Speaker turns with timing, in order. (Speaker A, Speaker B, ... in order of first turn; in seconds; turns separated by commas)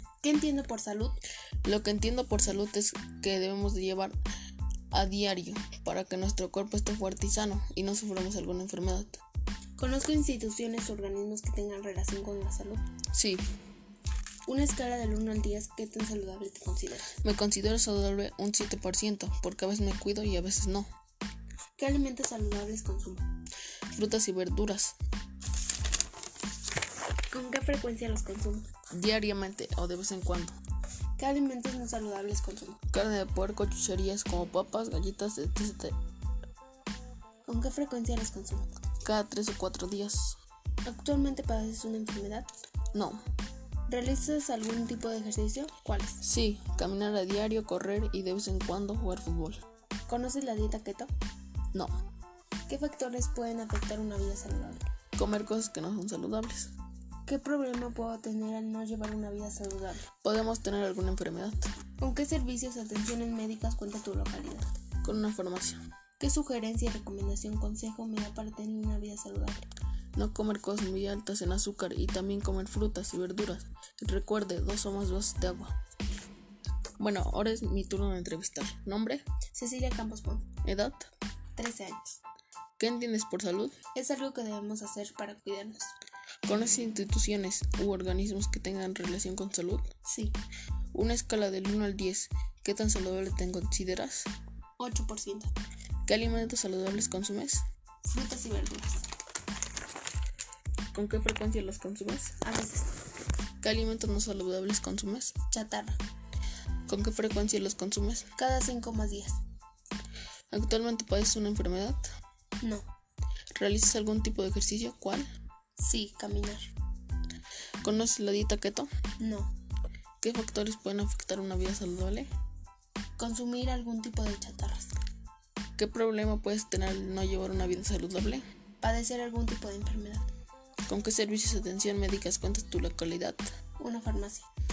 Speaker A: 0.2-1.2, Speaker B: 1.6-4.2, Speaker B: 4.9-9.2, Speaker A: 9.8-12.8, Speaker B: 13.1-13.4, Speaker A: 14.5-17.1, Speaker B: 17.2-20.9, Speaker A: 21.8-23.2, Speaker B: 23.9-25.0, Speaker A: 27.3-28.7, Speaker B: 28.9-30.6, Speaker A: 31.2-32.8, Speaker B: 32.9-36.0, Speaker A: 37.5-38.8, Speaker B: 39.0-40.4, Speaker A: 40.9-42.5, Speaker B: 42.9-43.2, Speaker A: 43.9-46.2, Speaker B: 46.2-49.6, Speaker A: 50.1-51.1, Speaker A: 52.7-54.8, Speaker B: 55.2-56.7, Speaker A: 57.3-60.1, Speaker B: 60.2-61.7, Speaker A: 62.0-64.7, Speaker B: 65.0-65.8, Speaker A: 66.2-69.7, Speaker B: 70.2-75.8, Speaker B: 77.0-79.2, Speaker A: 79.5-80.5, Speaker B: 80.6-81.1, Speaker A: 81.6-82.2, Speaker B: 82.8-83.8, Speaker A: 83.9-85.9, Speaker B: 86.5-89.9, Speaker A: 90.0-90.4, Speaker B: 90.9-94.3, Speaker A: 94.8-95.5, Speaker B: 96.1-97.6, Speaker A: 98.0-99.0, Speaker B: 100.9-102.3, Speaker A: 102.4-102.9, Speaker B: 103.6-105.4, Speaker A: 105.5-106.0, Speaker B: 106.9-108.3, Speaker A: 108.4-109.4, Speaker B: 110.5-112.1, Speaker B: 113.5-115.3, Speaker A: 115.8-116.7, Speaker B: 117.8-118.9, Speaker A: 119.2-119.5, Speaker B: 120.2-122.3, Speaker A: 123.2-124.9, Speaker B: 125.8-128.4, Speaker A: 128.8-130.3, Speaker B: 130.9-133.5, Speaker A: 133.8-134.5